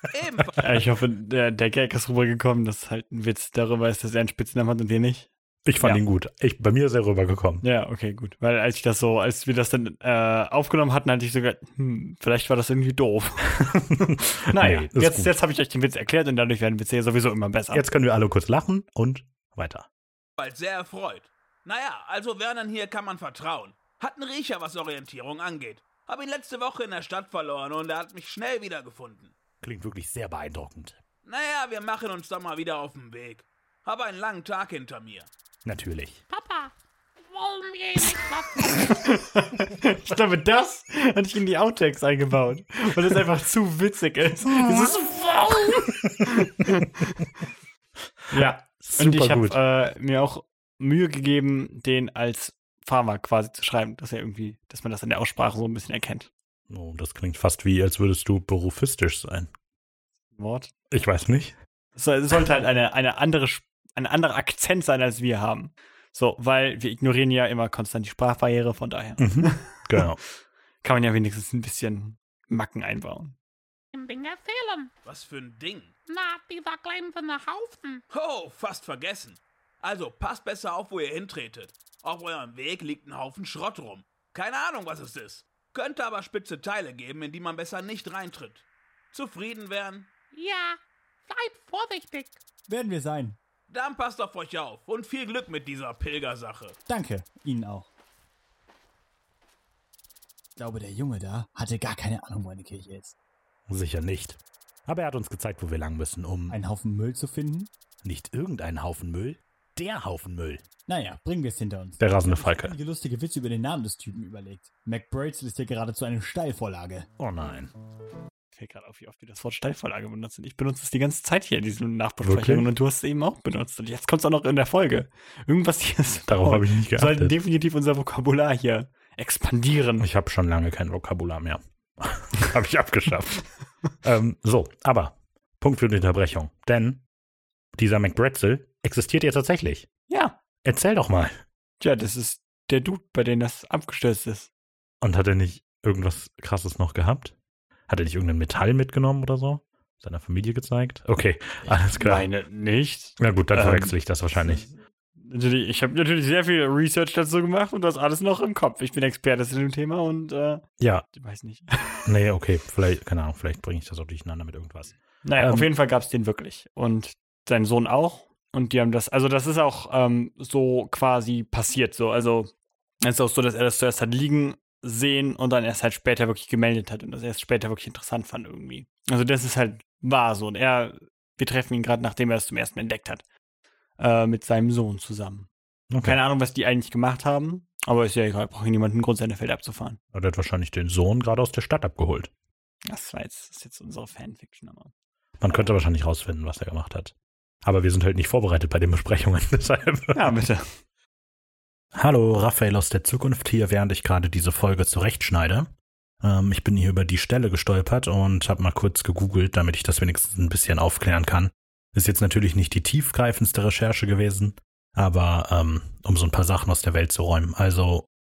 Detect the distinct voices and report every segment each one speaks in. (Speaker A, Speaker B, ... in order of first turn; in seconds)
Speaker A: 0.1-0.6, 20.4-29.3, 31.2-35.3, 75.0-75.9, 78.1-90.1, 93.7-96.8
Speaker B: 0.6-6.0, 7.6-17.9, 39.0-47.2, 48.3-56.3, 60.3-60.7, 62.0-70.1, 70.8-73.3, 118.5-130.1, 140.1-140.4, 141.8-144.5, 151.7-162.1, 165.2-172.5, 173.0-183.2, 184.0-185.5, 186.0-190.0, 192.9-194.9, 200.1-200.8
Speaker C: 5.6-7.6, 14.5-15.3, 17.7-19.9, 44.6-46.3, 48.6-49.6, 56.7-59.5, 60.9-61.5, 69.2-70.2, 112.0-112.7, 122.2-122.7, 126.3-127.4, 130.0-133.5, 134.0-137.0, 137.8-139.8, 140.6-141.3, 145.0-147.3, 147.9-152.3, 153.2-154.6, 160.8-161.0, 162.1-165.7, 185.9-186.2, 190.1-192.3, 195.4-200.2, 202.0-205.5, 206.3-218.1
Speaker D: 29.6-31.0, 35.6-36.2, 103.7-106.5, 108.0-110.6, 117.2-117.7, 137.9-138.8, 203.5-204.3, 204.9-205.6
Speaker E: 36.3-38.8, 73.9-74.9, 76.1-78.0, 90.3-92.4
Speaker F: 92.7-93.4, 96.9-97.9, 100.6-103.1, 106.5-107.7, 110.9-117.1